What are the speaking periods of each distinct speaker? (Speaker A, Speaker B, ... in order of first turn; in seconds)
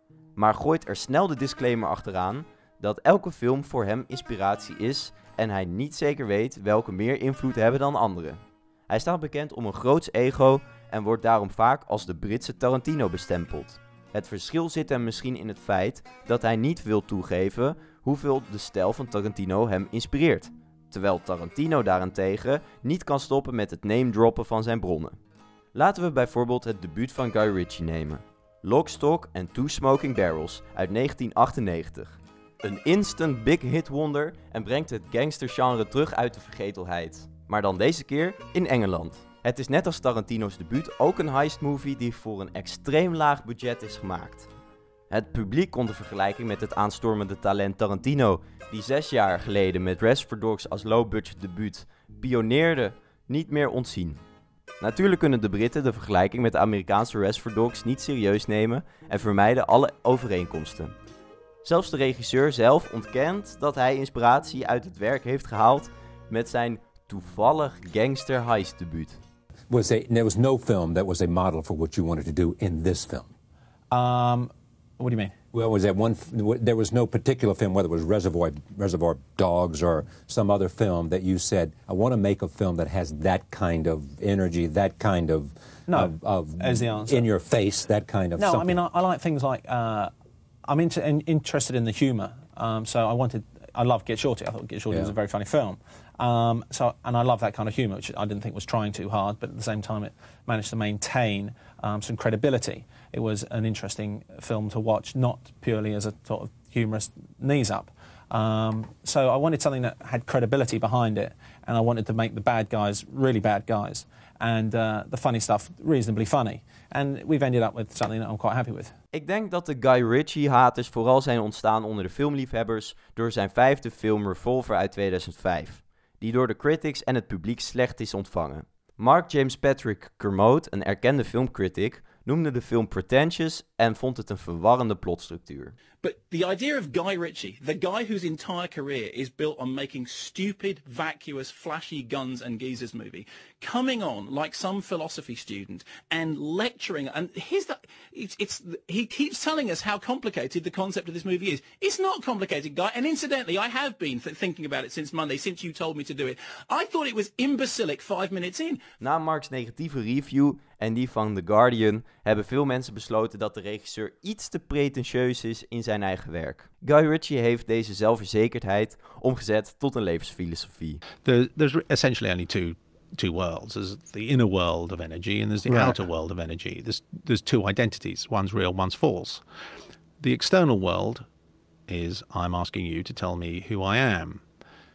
Speaker A: 0.4-25.1, 25.7-44.5, 45.1-54.2, 54.8-61.0, 61.6-69.2, 119.1-135.7, 159.0-171.0
Speaker B: 69.7-73.3, 75.5-88.8, 175.7-175.9
Speaker C: 73.9-75.3, 85.9-87.2, 88.4-90.1, 90.7-118.9
Speaker D: 136.0-158.8
Speaker E: 171.2-179.4, 180.2-181.2, 181.9-184.4